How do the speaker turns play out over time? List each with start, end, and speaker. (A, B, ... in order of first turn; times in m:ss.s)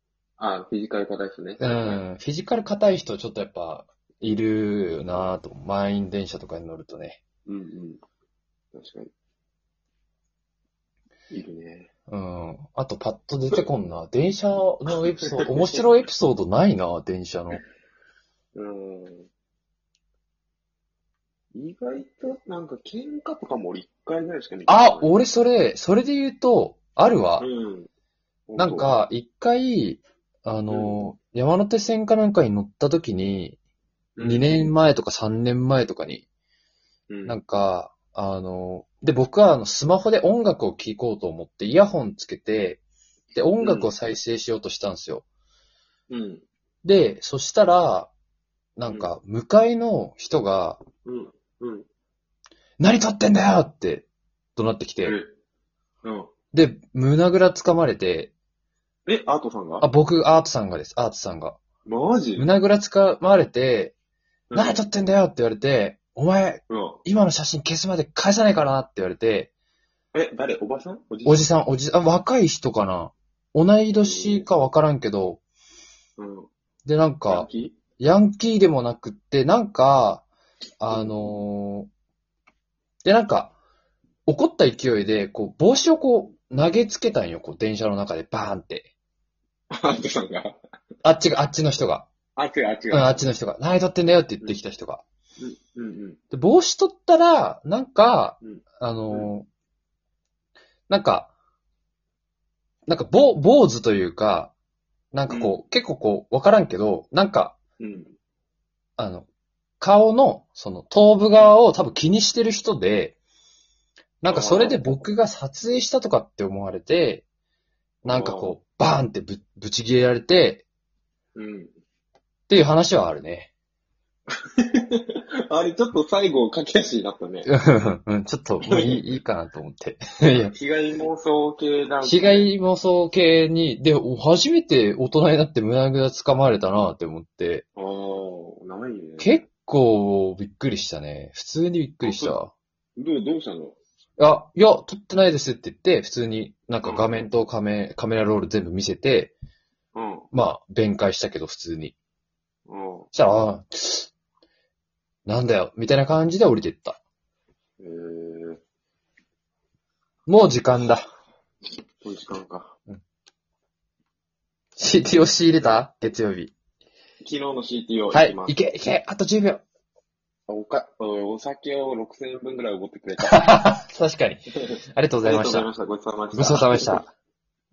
0:00.4-0:02.0 A
0:01.6-0:07.2 B
0:07.5-0:08.0 A
0:08.7-0:09.1 A
0:11.3-0:11.9 A
0:12.1-0:17.6 B
0:15.4-0:15.8 A
0:18.5-0:19.3 A
0:21.5-0:25.2 A
0:24.7-0:27.5 B
0:27.4-0:27.9 A
0:28.5-0:29.0 A
0:28.6-0:33.6 B
0:30.7-0:31.0 A
0:34.2-0:34.6 A
0:34.2-0:36.3 B
0:37.1-0:37.4 A
0:37.3-0:42.8 B
0:43.4-0:45.2 B
0:43.6-0:43.9 A
0:46.1-0:46.4 A
0:46.8-0:48.1 B
0:48.8-0:50.8 B
0:51.0-0:51.9 A
0:52.8-0:55.2 B
0:55.0-0:55.3 A
0:56.0-0:56.3 A
0:56.5-0:58.3 B
0:59.1-0:59.9 A
0:59.8-1:01.6 B
1:01.8-1:02.5 A
1:02.4-1:04.0 B
1:04.5-1:04.8 A
1:04.5-1:09.5 B
1:06.7-1:07.0 A
1:10.1-1:11.5 A
1:11.2-1:15.4 B
1:14.0-1:14.5 A
1:16.2-1:16.5 A
1:16.9-1:20.3 B
1:17.3-1:17.8 A
1:20.8-1:21.9 B
1:20.9-1:21.3 A
1:23.0-1:23.6 B
1:24.3-1:28.9 B
1:29.7-1:30.6 A
1:31.0-1:32.1 B
1:32.4-1:33.3 A
1:32.9-1:35.0 B
1:35.4-1:36.2 A
1:36.3-1:39.5 B
1:38.4-1:39.3 A
1:40.9-1:41.3 B
1:42.9-1:44.5 B
1:45.1-1:47.6 B
1:45.3-1:45.6 A
1:47.8-1:48.2 A
1:49.0-1:49.3 B
1:49.8-1:53.2 B
1:54.2-1:57.2 B
1:54.3-1:54.8 A
1:58.0-2:00.6 B
1:58.1-1:58.6 A
2:01.4-2:01.7 A
2:02.5-2:03.5 B
2:04.5-2:07.5 A
2:07.4-2:10.5 B
2:08.7-2:09.0 A
2:10.3-2:12.5 A
2:12.0-2:17.6 B
2:17.8-2:19.4 A
2:19.2-2:22.5 B
2:22.0-2:22.4 A
2:23.0-2:23.8 A
2:24.2-2:29.3 B
2:26.8-2:27.2 A
2:30.0-2:30.3 A
2:30.3-2:32.0 B
2:32.7-2:33.1 A
2:33.1-2:34.1 B
2:35.3-2:37.0 B
2:37.8-2:38.6 A
2:40.3-2:41.1 B
2:42.0-2:42.8 A
2:44.8-2:46.5 B
2:47.2-2:48.6 A
2:48.1-2:49.6 B
2:50.5-2:53.6 A
2:53.3-2:55.7 B
2:55.2-2:57.0 A
2:56.3-2:57.1 B